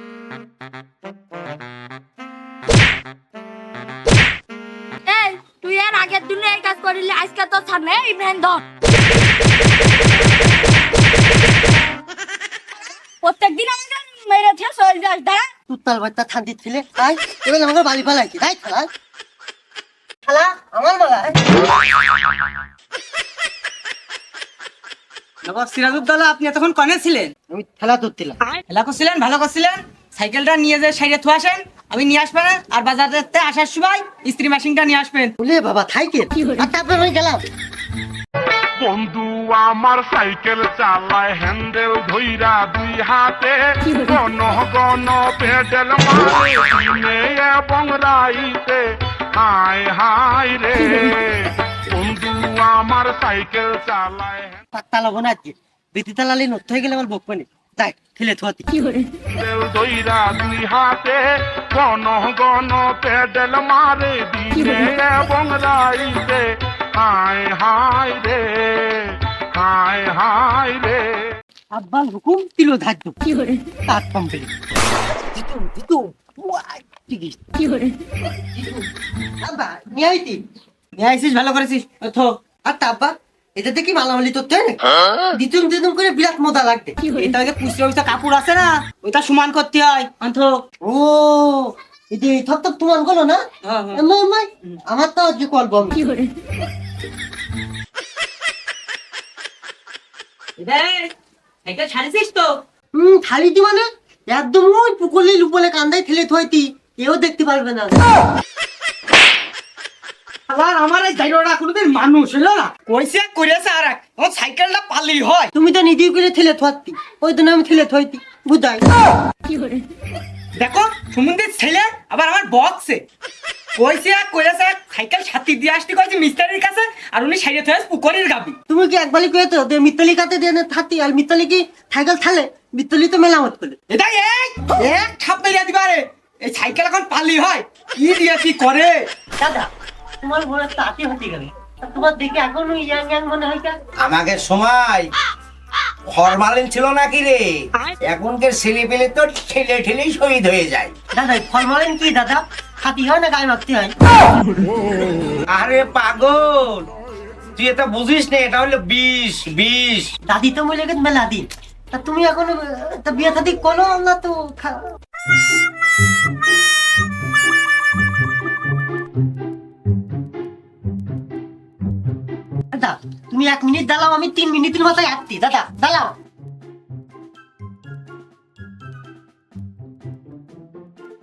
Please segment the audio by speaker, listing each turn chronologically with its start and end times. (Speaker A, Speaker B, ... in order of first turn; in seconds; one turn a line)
Speaker A: 5.0-8.6
Speaker A: 13.2-15.5
Speaker B: 15.7-18.9
Speaker B: 20.2-21.4
Speaker C: 25.4-27.3
Speaker B: 27.5-28.4
Speaker C: 28.5-35.3
Speaker B: 35.4-37.4
Speaker D: 38.8-48.8
Speaker D: 49.4-54.6
Speaker B: 54.7-58.7
Speaker D: 59.3-71.3
Speaker B: 71.7-73.2
Speaker B: 73.9-74.5
Speaker B: 75.2-77.6
Speaker B: 78.5-78.8
Speaker B: 79.4-80.4
Speaker C: 81.0-82.3
Speaker B: 82.7-87.0
Speaker C: 87.1-90.6
Speaker B: 90.8-93.4
Speaker C: 93.6-94.0
Speaker B: 93.9-96.0
Speaker C: 100.6-101.1
Speaker C: 101.6-102.6
Speaker B: 102.9-108.0
Speaker C: 110.5-115.5
Speaker B: 115.5-118.8
Speaker C: 120.5-123.0
Speaker C: 123.8-128.6
Speaker B: 128.7-133.8
Speaker C: 133.9-139.1
Speaker B: 139.4-139.7
Speaker B: 140.2-143.8
Speaker E: 144.0-145.1
Speaker E: 146.1-150.9
Speaker B: 151.1-153.9
Speaker E: 155.5-156.9
Speaker E: 157.6-160.1
Speaker B: 160.3-164.8
Speaker B: 172.7-176.1